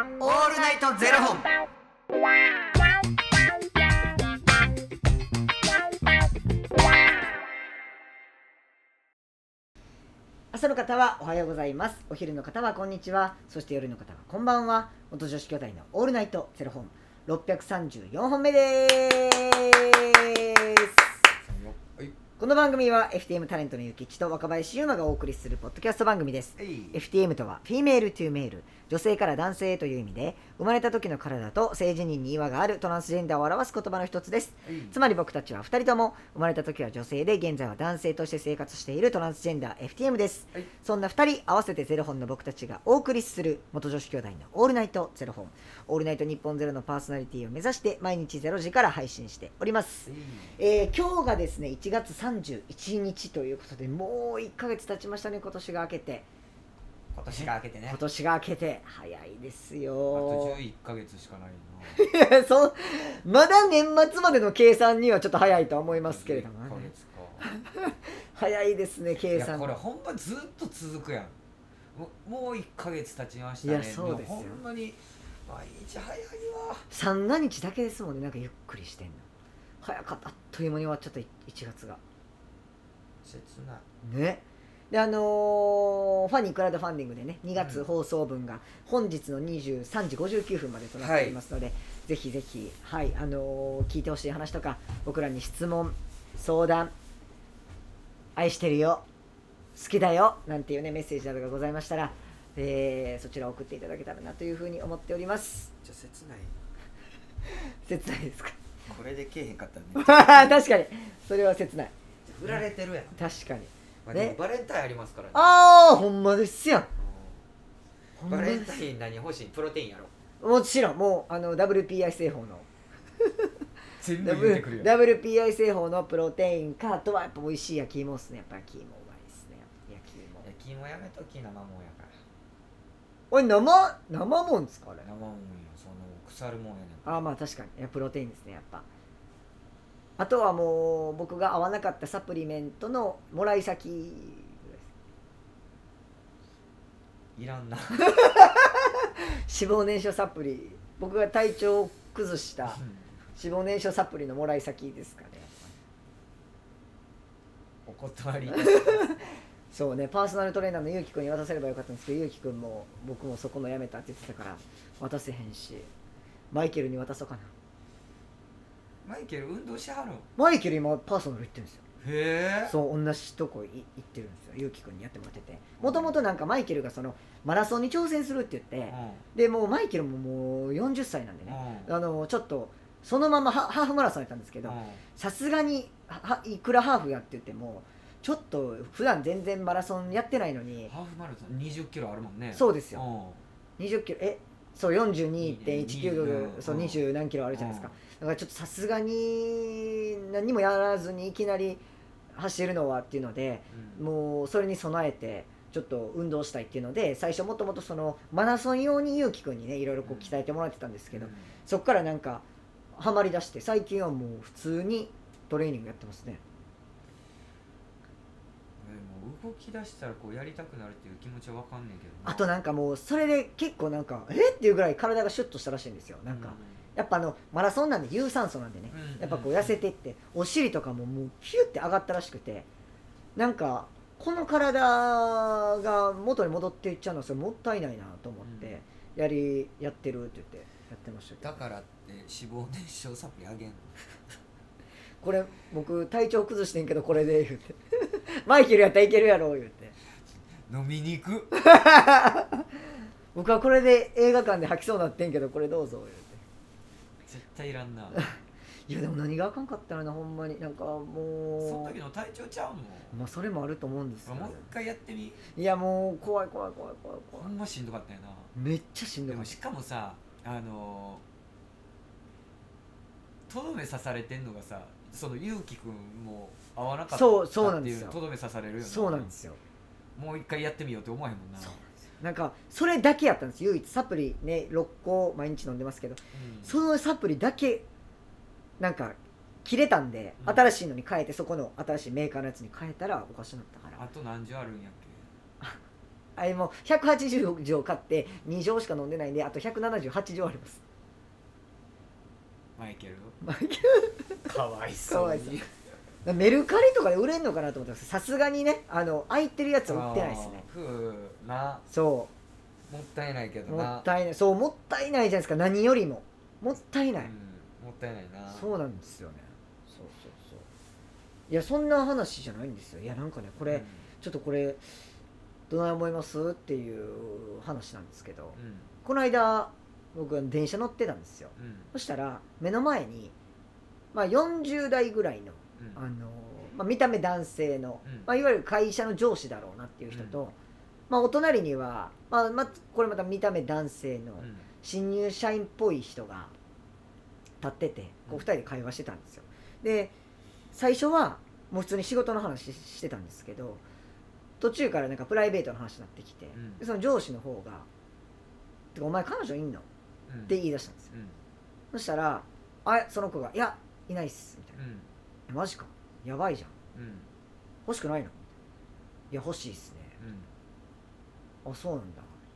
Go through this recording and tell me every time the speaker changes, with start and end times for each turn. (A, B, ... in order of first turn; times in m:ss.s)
0:00.2-0:01.5 A
0:10.5-0:21.0 B
0:21.4-0:22.2 A
0:22.4-0:56.2 B
0:26.6-0:27.0 A
0:34.6-0:35.0 A
0:50.0-0:50.6 A
0:57.1-0:58.0 A
0:57.3-1:00.6 B
1:00.1-1:02.0 A
1:01.9-1:06.9 B
1:05.9-1:07.5 A
1:07.4-1:09.8 B
1:09.3-1:11.4 A
1:11.9-1:16.9 A
1:13.6-1:14.6 B
1:16.9-1:19.2 B
1:19.8-1:22.0 B
1:23.2-1:23.8 A
1:24.0-1:36.9 B
1:27.6-1:27.8 A
1:31.0-1:31.4 A
1:38.4-1:39.0 B
1:39.8-1:45.7 B
1:45.8-1:46.6 A
1:47.5-1:48.6 B
1:48.9-1:50.6 A
1:50.0-1:51.9 B
1:52.2-1:53.2 A
1:53.2-1:54.4 B
1:54.0-1:55.5 A
1:55.3-1:56.9 B
1:57.0-1:57.4 A
1:58.2-1:58.8 B
1:58.3-2:00.1 A
2:00.4-2:02.7 B
2:04.0-2:05.0 A
2:04.2-2:10.5 B
2:10.4-2:12.1 A
2:13.3-2:15.1 B
2:15.0-2:17.3 A
2:17.0-2:18.8 B
2:20.2-2:24.9 B
2:27.4-2:28.1 A
2:28.0-2:32.8 B
2:32.7-2:33.0 A
2:33.4-2:35.7 B
2:37.8-2:39.1 A
2:38.5-2:39.2 B
2:39.7-2:45.9 B
2:46.5-2:47.5 B
2:49.0-2:50.3 A
2:50.4-2:51.8 B
2:52.0-2:52.8 A
2:52.7-3:10.9 B
2:55.8-2:56.2 A
2:58.9-2:59.2 A
3:01.4-3:01.9 A
3:04.6-3:05.0 A
3:10.8-3:13.4 A
3:12.5-3:13.0 B
3:13.8-3:21.8 B
3:15.4-3:17.9 A
3:22.3-3:36.4 B
3:23.7-3:24.0 A
3:30.0-3:30.4 A
3:31.1-3:31.5 A
3:38.8-3:42.4 A
3:42.2-3:52.7 B
3:46.3-3:46.8 A
3:48.9-3:49.8 A
3:53.4-4:01.6 B
3:58.4-3:58.8 A
4:01.4-4:04.2 A
4:05.2-4:09.9 B
4:10.7-4:11.5 A
4:11.5-4:12.6 B
4:13.3-4:16.4 B
4:17.2-4:18.2 A
4:18.9-4:21.9 B
4:21.6-4:23.2 A
4:23.1-4:24.7 B
4:24.2-4:25.5 A
4:25.6-4:27.5 B
4:27.3-4:28.5 A
4:28.6-4:29.5 B
4:29.3-4:31.2 A
4:33.5-4:39.3 A
4:37.1-4:38.2 B
4:38.8-4:39.6 B
4:40.2-4:41.8 A
4:41.6-4:47.8 B
4:46.3-4:46.8 A
4:48.8-4:54.1 B
4:50.4-4:50.7 A
4:54.0-4:55.3 A
4:56.4-5:00.8 B
5:02.8-5:03.4 A
5:03.4-5:04.5 B
5:04.4-5:05.6 A
5:05.1-5:05.7 B
5:06.2-5:10.6 B
5:09.9-5:11.8 A
5:11.9-5:12.3 B
5:12.9-5:14.1 A
5:13.7-5:17.3 B
5:17.2-5:18.7 A
5:18.5-5:20.6 B
5:21.5-5:24.8 B
5:23.6-5:24.1 A
5:25.7-5:33.3 B
5:28.6-5:28.9 A
5:31.6-5:31.9 A
5:34.1-5:40.6 B
5:40.1-5:40.4 A
5:41.1-5:46.5 B
5:44.4-5:44.7 A
5:47.6-5:50.1 B
5:50.7-5:53.8 B
5:54.6-5:57.9 B
5:56.5-5:56.8 A
5:58.9-5:59.8 B
6:00.3-6:00.6 A
6:00.5-6:01.1 B
6:01.1-6:01.4 A
6:01.9-6:04.8 B
6:04.8-6:05.1 A
6:05.5-6:06.7 B
6:06.9-6:07.3 A
6:07.9-6:08.4 B
6:09.3-6:10.2 B
6:10.2-6:10.5 A
6:11.6-6:12.3 B